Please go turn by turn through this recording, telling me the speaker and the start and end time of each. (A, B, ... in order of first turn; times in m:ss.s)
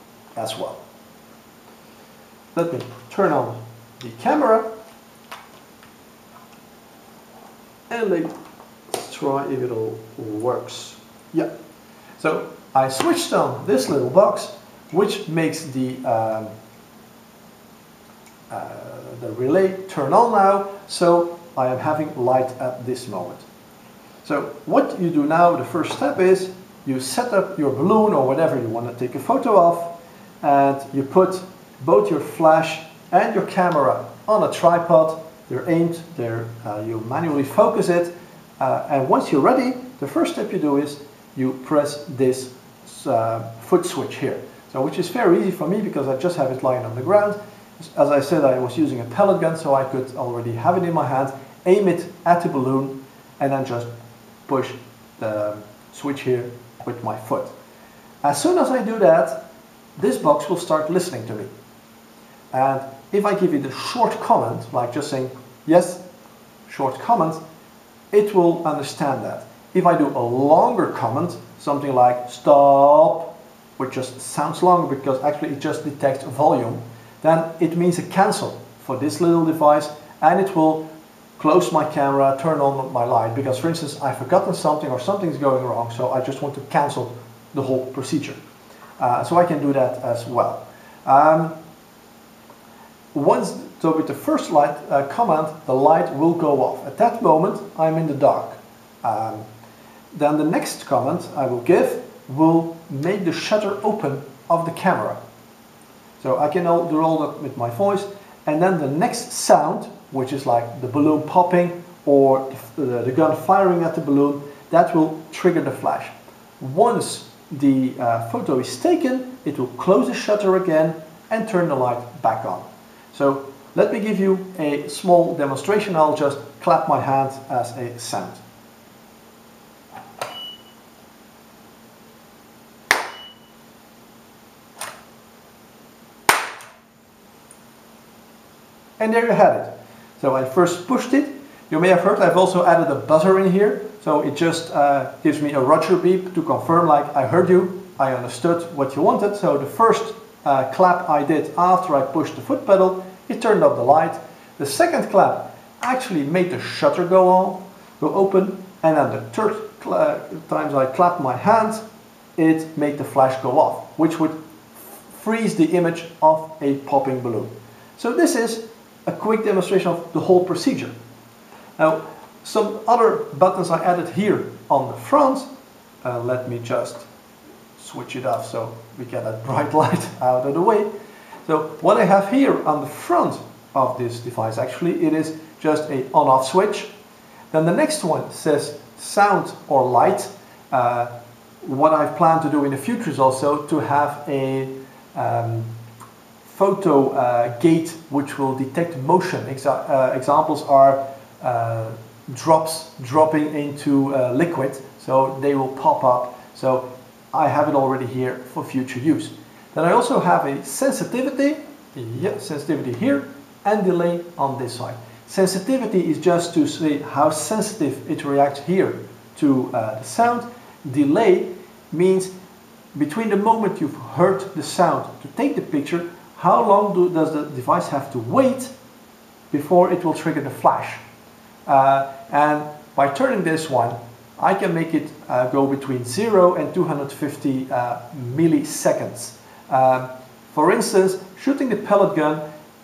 0:00.4-0:00.8 A
0:02.5-0:04.7 A
0:07.9-0:08.3 A
0:08.9-0:11.5 A
0:12.2-0:16.5 A
0:18.5-0:23.4 A
0:24.2-0:53.9 A
0:54.5-0:57.5 A
0:58.2-0:59.4 A
1:00.0-1:01.5 A
1:02.5-1:06.0 A
1:06.7-1:07.4 A
1:08.1-1:20.9 A
1:21.4-1:28.4 A
1:29.0-1:31.6 A
1:33.1-1:39.5 A
1:40.1-1:45.2 A
1:46.2-2:08.4 A
2:19.0-2:41.8 A
2:42.4-2:50.9 A
2:51.8-2:55.5 A
2:56.0-2:57.1 A
2:57.8-3:00.9 A
3:01.4-3:06.9 A
3:07.5-3:11.1 A
3:11.6-3:15.7 A
3:16.5-3:42.3 A
3:42.9-3:48.7 A
3:49.5-3:51.0 A
3:51.7-4:02.4 A